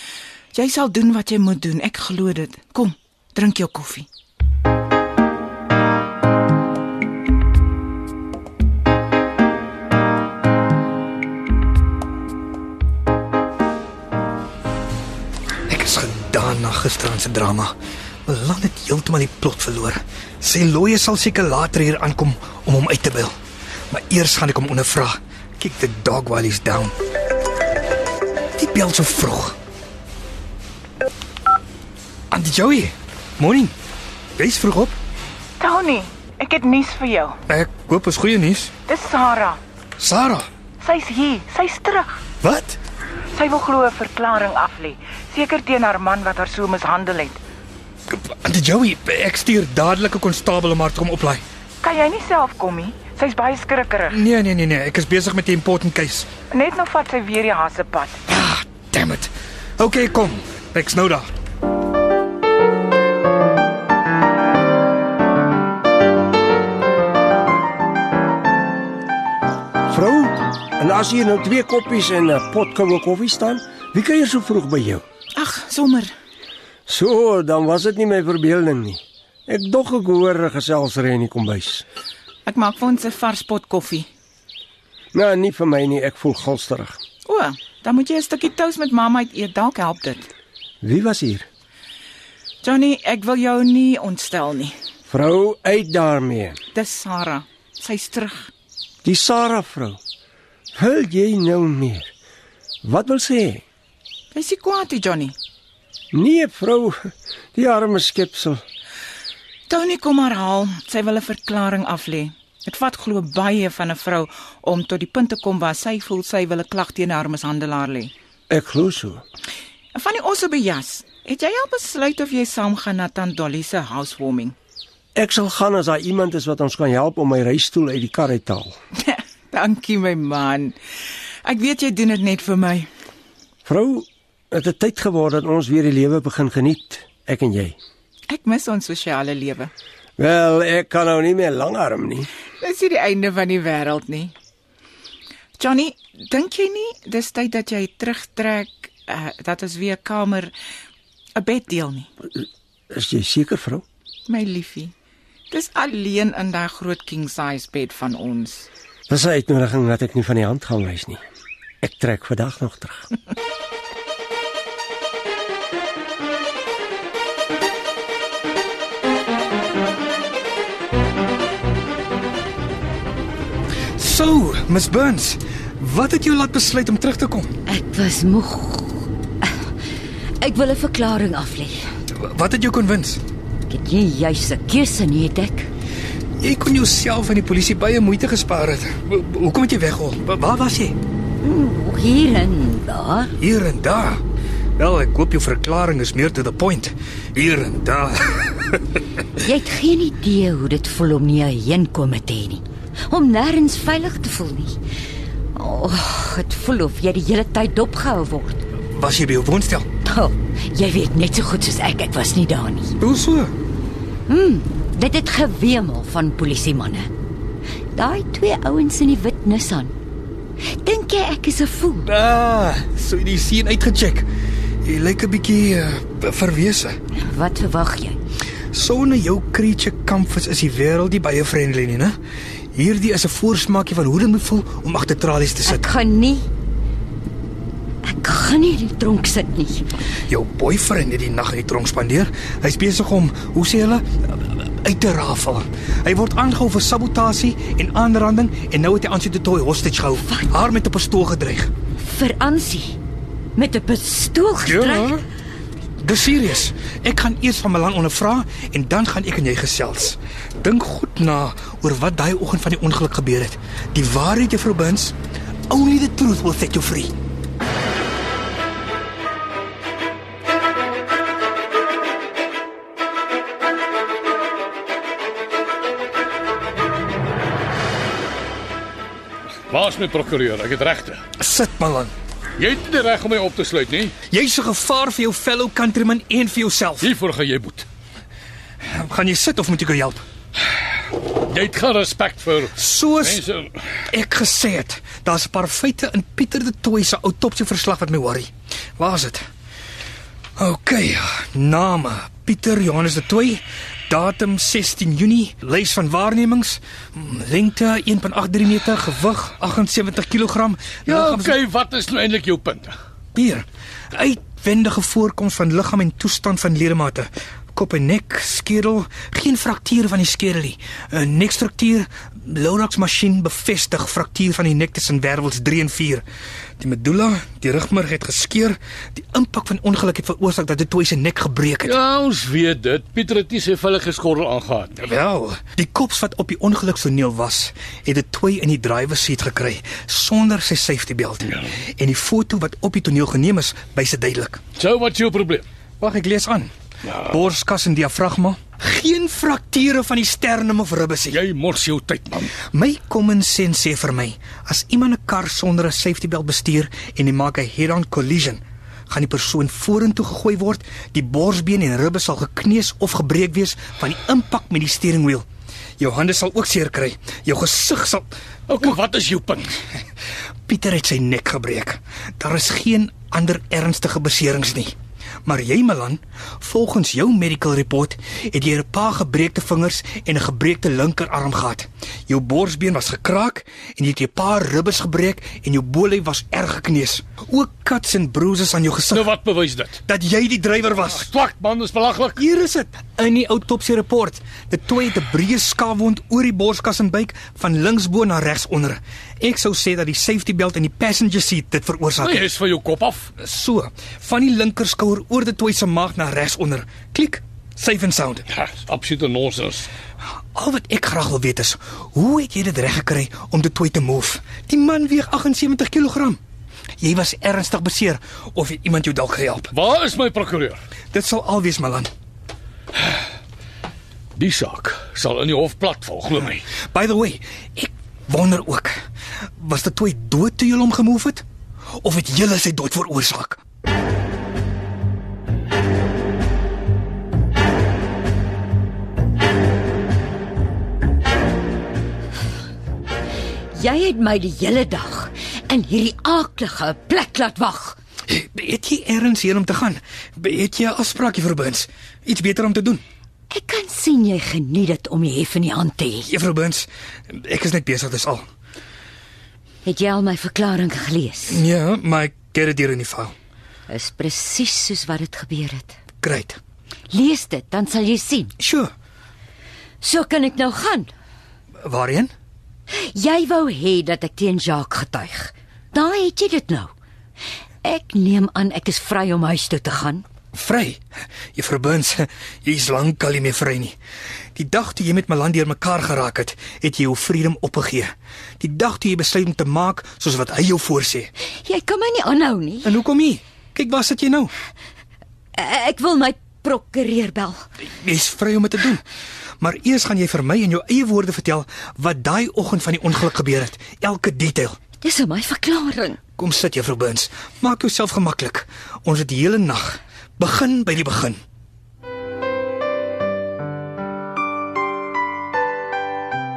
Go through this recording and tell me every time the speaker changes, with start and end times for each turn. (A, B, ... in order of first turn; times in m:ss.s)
0:00.5-0:04.1 A
0:15.7-0:17.7 B
0:18.3-0:23.3 B
0:23.9-0:26.9 B
0:28.6-0:29.6 B
0:32.3-0:33.7 B
0:34.4-0:35.0 B
0:35.6-0:37.4 A
0:37.5-0:38.7 B
0:38.9-0:39.6 A
0:40.0-0:40.5 B
0:40.8-0:42.2 A
0:42.4-0:42.8 B
0:43.4-0:47.4 A
0:48.1-0:51.4 B
0:51.8-0:54.2 A
0:54.1-0:56.3 B
0:56.5-0:58.2 A
0:58.3-1:01.3 B
1:09.9-1:15.0 C
1:15.4-1:16.1 A
1:16.9-1:21.8 C
1:22.5-1:24.1 A
1:25.1-1:27.0 C
1:27.3-1:30.3 A
1:30.8-1:31.5 C
1:32.6-1:34.8 A
1:35.1-1:36.6 C
1:36.7-1:38.5 A
1:39.0-1:40.0 C
1:40.7-1:42.1 C
1:42.8-1:43.6 C
1:44.3-1:45.4 A
1:46.1-1:48.6 C
1:49.7-1:58.1 A
1:58.5-1:59.2 C
2:00.0-2:04.6 A
2:05.2-2:08.8 C
2:09.0-2:10.8 A
2:11.4-2:12.9 A
2:13.7-2:17.8 C
2:18.3-2:19.7 A
2:20.2-2:22.3 C
2:22.6-2:24.4 A
2:25.6-2:30.5 A
2:31.4-2:32.1 A
2:32.9-2:33.8 C
2:34.3-2:34.9 A
2:35.5-2:38.7 A
2:39.1-2:41.2 C
2:41.8-2:43.0 C
2:54.0-2:57.5 B
2:57.7-2:59.1 D
3:00.4-3:01.8 D
3:02.2-3:03.2 B
3:03.7-3:05.7 D
3:06.4-3:11.0 B
3:11.4-3:13.3 D
3:13.4-3:14.2 B
3:14.8-3:18.8 B
3:19.4-3:24.8 D
3:25.6-3:28.6 D
3:28.9-3:29.9 B
3:30.0-3:32.9 D
3:33.0-3:33.5 B
3:34.3-3:37.1 D
3:37.9-3:39.9 D
3:40.8-3:42.1 D
3:42.1-3:44.3 B
3:44.8-3:47.0 B
3:47.2-3:48.2 D
3:48.7-3:52.2 B
3:52.7-3:55.9 B
3:55.7-3:56.5 D
3:58.0-3:59.9 D
4:00.3-4:11.7 B
4:12.0-4:13.0 D
4:13.6-4:15.2 D
4:14.6-4:15.2 B
4:16.0-4:25.2 B
4:25.7-4:27.1 B
4:39.7-4:41.2 E
4:41.4-4:42.1 B
4:42.6-4:44.1 E
4:44.3-4:47.1 B
4:47.0-4:47.9 E
4:48.8-4:50.2 B
4:51.5-4:53.8 E
4:52.7-4:53.4 B
4:54.1-4:59.4 B
5:00.6-5:11.6 B
5:11.1-5:13.0 E
5:13.4-5:26.2 B
5:26.8-5:32.0 B
5:31.9-5:35.1 E
5:35.0-5:44.6 B
5:44.8-5:45.7 E
5:46.0-5:46.7 B
5:47.3-5:51.4 B
5:51.3-5:52.6 E
5:52.6-6:05.5 B
6:06.0-6:08.3 B
6:08.7-6:09.8 E
6:10.7-6:14.9 B
6:15.4-6:29.3 B
6:29.1-6:30.0 E
6:30.0-6:31.3 B
6:30.9-6:32.4 E
6:32.4-6:42.5 B
6:42.2-6:43.3 E
6:43.4-6:48.5 B
6:48.5-6:49.9 E
6:50.6-6:56.4 B
6:57.0-6:59.7 B
6:59.7-7:00.8 E
7:01.1-7:02.1 B
7:04.4-7:06.6 E
7:06.8-7:09.0 B
7:09.6-7:11.4 B
7:12.0-7:13.6 B
7:23.8-7:28.0 D
7:28.3-7:33.0 B
7:33.5-7:36.3 D
7:36.3-7:38.5 B
7:39.8-7:41.6 D
7:41.5-7:43.3 B
7:43.9-7:46.0 D
7:46.2-7:46.6 B
7:47.1-7:48.5 D
7:48.6-7:48.9 B
7:50.0-7:51.1 D
7:51.8-7:52.3 B
7:53.1-7:56.9 D
7:57.8-8:00.2 D
8:00.5-8:01.0 B
8:01.6-8:04.0 B
8:04.6-8:11.3 B
8:11.6-8:13.0 D
8:12.8-8:14.5 B
8:15.6-8:17.6 D
8:17.9-8:19.0 B
8:19.6-8:24.8 B
8:25.0-8:26.2 D
8:26.4-8:31.4 B